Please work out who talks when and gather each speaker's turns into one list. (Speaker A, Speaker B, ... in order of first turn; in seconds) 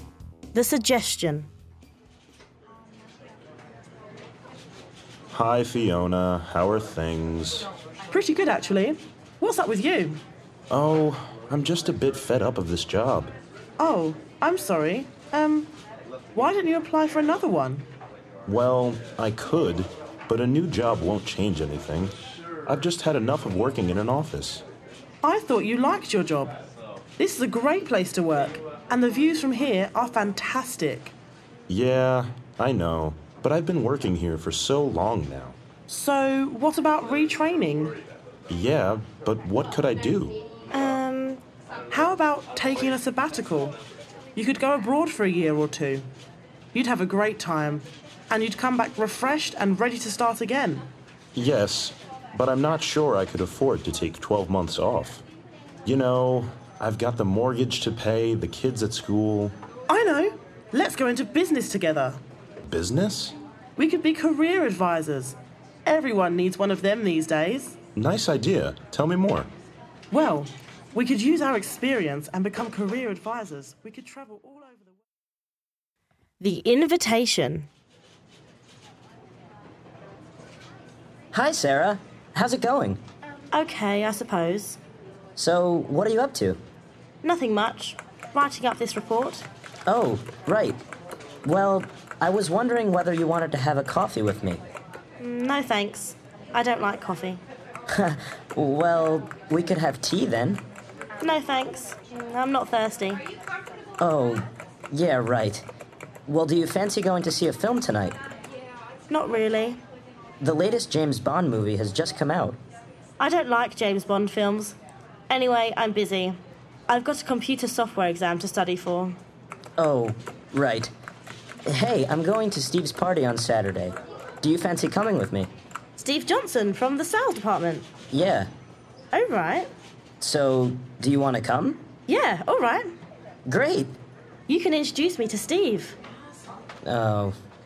Speaker A: 0.5-1.5, 40.7-41.4, 76.4-77.7, 83.5-84.8, 87.2-89.4, 95.2-97.4, 101.2-103.2, 109.1-109.8, 113.2-114.8, 115.3-116.4, 116.9-119.2, 126.0-127.9, 129.1-129.7, 132.1-132.9, 134.5-136.0
Speaker B: 5.3-7.7, 10.7-13.3, 18.4-22.1, 22.7-24.6, 31.7-35.5, 38.5-40.4, 51.3-55.2, 55.9-59.5, 62.6-63.3, 68.0-69.5
Speaker C: 8.1-10.2, 13.8-15.7, 16.3-17.9, 25.2-26.6, 27.2-31.1, 35.9-38.0, 41.9-43.7, 44.4-46.0, 46.7-50.8, 59.9-62.2, 63.8-67.7, 70.1-75.0
Speaker D: 81.3-83.0, 85.4-86.6, 89.9-90.8, 91.4-94.6, 97.9-100.6, 104.0-105.6, 106.3-108.2, 110.4-112.6, 119.8-120.9, 121.7-125.5, 128.1-128.5, 130.2-131.9, 133.5-133.9, 136.8-137.3